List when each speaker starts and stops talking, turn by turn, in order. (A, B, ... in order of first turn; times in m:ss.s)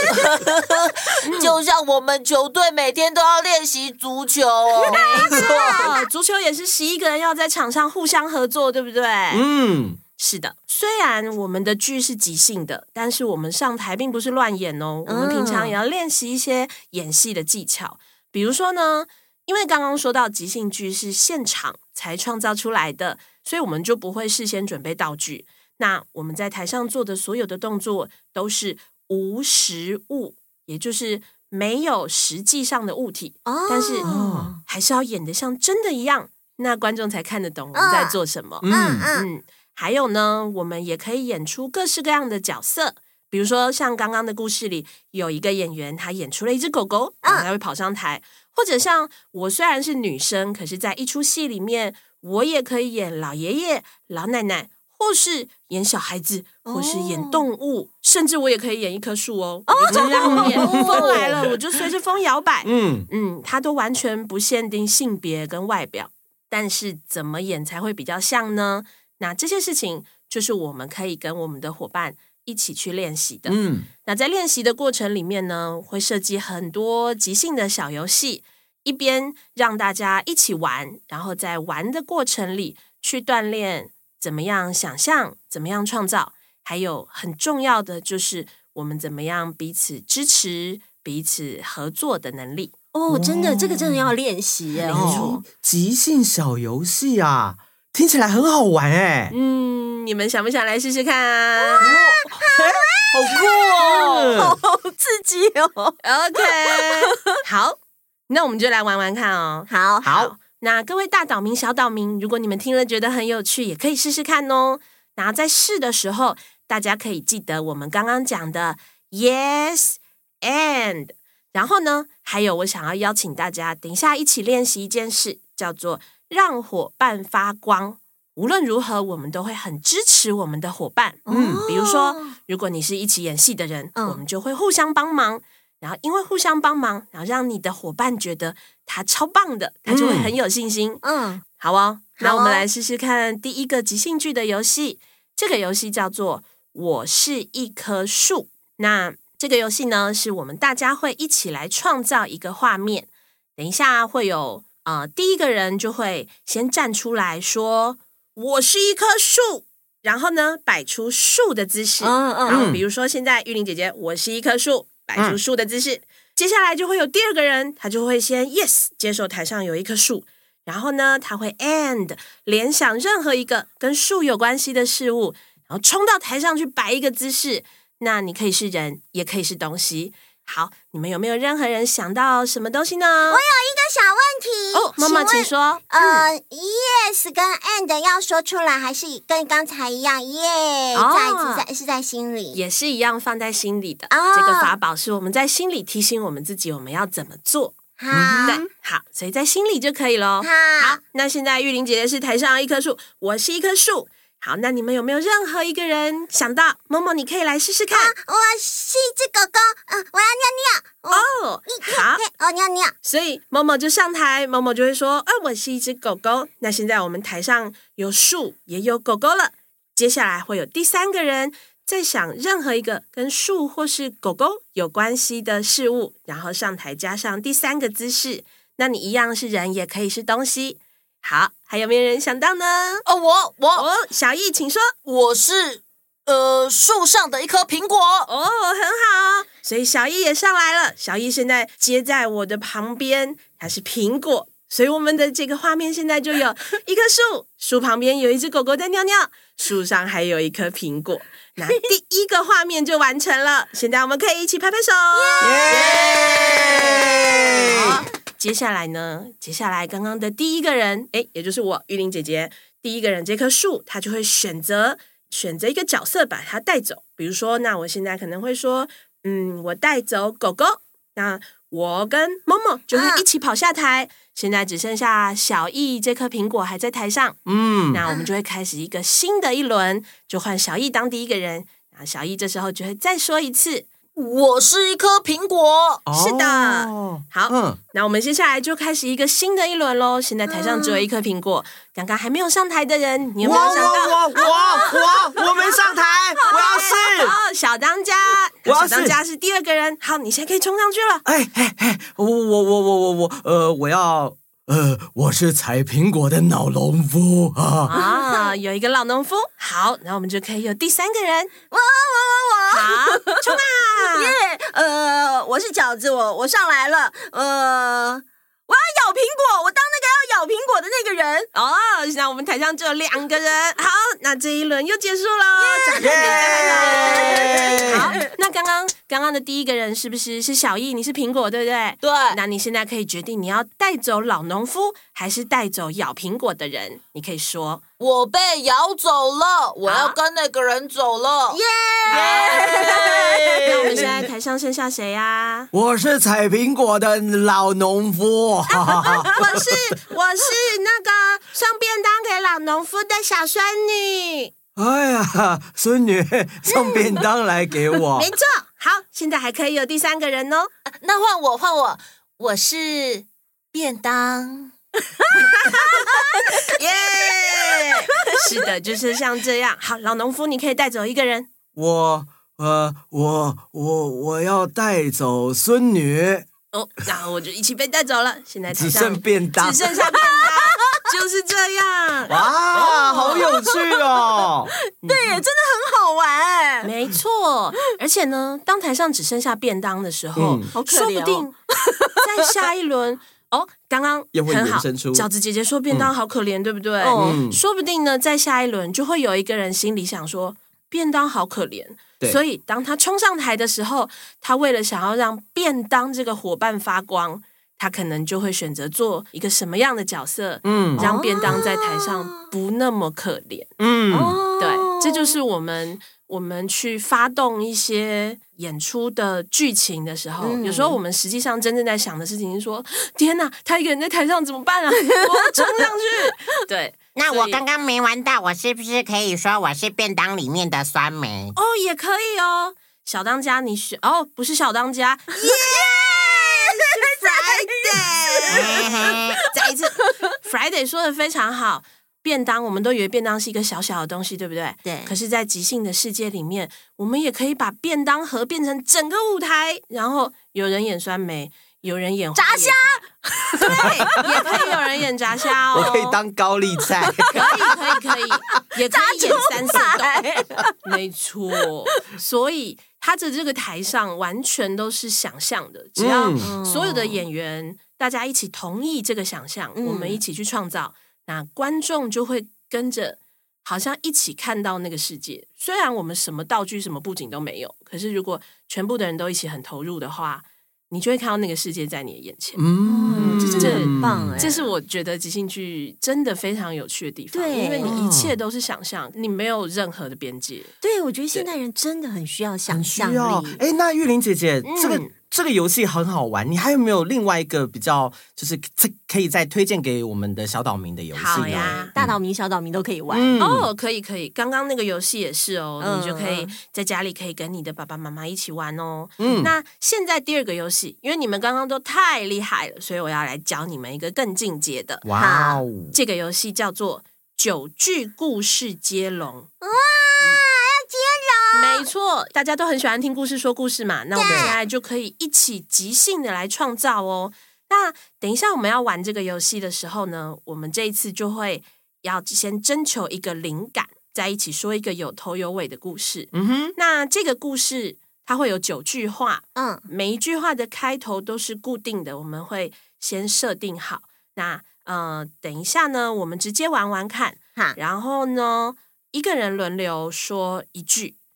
0:00.2-0:05.8 A
0:04.9-0:06.0 B
0:04.9-0:09.4 C
0:09.3-0:10.0 D
0:10.2-0:34.1 C
0:15.1-0:15.7 E
0:33.4-0:34.6 E
0:34.0-0:34.6 D
0:34.6-1:32.7 C
0:37.7-0:38.2 B
0:38.6-0:39.1 D
0:38.7-0:39.3 B
0:56.6-0:57.4 E
0:59.7-1:00.8 E
0:59.9-1:01.5 D
1:00.6-1:01.2 A
1:02.6-1:03.1 D
1:13.5-1:13.9 D
1:32.9-1:35.4 E
1:33.1-1:34.1 D
1:34.8-1:39.4 D
1:34.9-1:35.2 C
1:39.3-1:41.9 C
1:41.8-1:44.6 D
1:43.3-1:47.4 E
1:46.0-1:47.8 C
1:48.3-2:21.0 C
1:49.7-1:50.1 E
1:50.0-1:50.3 D
2:11.3-2:12.3 E
2:11.3-2:11.6 D
2:14.0-2:14.2 E
2:19.9-2:20.3 D
2:21.0-2:21.4 E
2:21.6-3:03.4 C
2:22.2-2:22.6 E
2:42.0-2:42.6 E
2:42.5-2:42.8 D
3:03.3-3:12.6 B
3:04.7-3:06.3 C
3:10.9-3:11.6 C
3:12.5-3:17.8 C
3:14.1-3:14.7 B
3:18.0-3:18.6 B
3:18.1-3:18.7 D
3:18.4-3:28.1 C
3:20.4-3:21.0 B
3:27.9-3:32.9 B
3:31.1-3:32.3 C
3:33.0-3:53.0 C
3:53.1-3:53.9 A
3:53.8-3:54.9 C
3:55.1-3:58.3 A
3:58.3-4:16.9 C
4:15.2-4:15.8 E
4:15.4-4:18.0 D
4:15.5-4:15.9 B
4:15.8-4:16.8 A
4:16.7-4:17.6 E
4:17.6-4:37.4 C
4:32.9-4:33.2 B
4:37.5-4:38.0 D
4:37.9-4:43.9 C
4:44.2-4:46.0 A
4:46.1-4:47.8 D
4:46.1-4:55.8 C
4:50.5-4:51.0 E
4:53.4-4:57.4 D
4:53.5-4:55.6 E
4:56.4-4:57.3 E
4:56.4-5:01.2 C
4:58.6-4:59.2 D
5:01.2-5:07.9 D
5:07.9-5:11.5 C
5:08.0-5:08.5 E
5:11.7-5:21.5 E
5:12.7-5:14.4 C
5:21.5-5:37.8 C
5:25.6-5:28.2 E
5:26.0-5:28.1 D
5:32.0-5:32.4 A
5:38.0-5:43.9 A
5:39.9-5:40.2 C
5:41.5-5:44.2 E
5:42.1-5:43.0 C
5:43.6-5:45.7 C
5:45.7-5:50.0 D
5:48.7-5:54.5 C
5:54.8-5:58.3 D
5:58.2-6:00.7 C
6:01.0-6:04.7 A
6:06.8-6:11.5 C
6:08.2-6:08.6 E
6:11.8-6:16.5 D
6:16.7-6:22.4 C
6:18.7-6:20.2 D
6:20.6-6:21.0 E
6:22.3-6:24.7 D
6:22.7-6:24.3 E
6:22.9-6:23.4 C
6:25.0-6:26.9 E
6:25.0-6:25.4 C
6:26.8-6:31.5 C
6:30.4-6:30.7 D
6:30.7-6:32.3 E
6:32.2-6:53.7 C
6:34.3-6:35.3 D
6:37.0-6:37.4 E
6:37.1-6:37.6 D
6:50.6-6:51.1 D
6:51.0-6:52.5 E
6:53.8-6:54.4 D
6:54.1-6:55.4 E
6:54.6-7:07.6 C
7:00.4-7:01.0 E
7:05.2-7:05.6 E
7:07.2-7:11.6 F
7:11.6-7:18.9 C
7:15.4-7:20.2 E
7:18.5-7:19.4 F
7:19.5-7:33.0 C
7:24.8-7:25.1 E
7:32.4-7:34.8 E
7:33.6-7:36.2 C
7:35.7-7:37.6 D
7:36.8-7:37.7 E
7:37.3-7:40.2 C
7:38.8-7:40.8 E
7:40.8-8:10.7 C
7:46.0-7:46.6 D
7:46.4-7:47.2 E
7:49.8-7:50.2 E
8:02.6-8:04.5 D
8:02.8-8:04.7 E
8:07.3-8:08.0 E
8:07.8-8:08.4 D
8:10.8-8:13.6 E
8:12.7-8:22.2 D
8:14.6-8:15.1 C
8:21.1-8:21.9 C
8:21.3-8:23.4 E
8:23.1-8:23.7 D
8:23.4-8:35.0 C
8:25.8-8:26.6 E
8:29.2-8:29.5 D
8:35.0-8:36.0 D
8:35.2-8:35.6 E
8:35.9-8:39.5 C
8:39.6-8:41.8 B
8:41.5-9:11.2 C
8:44.2-8:44.6 B
8:44.2-8:44.6 D
8:56.3-8:56.7 D
8:59.6-8:59.8 E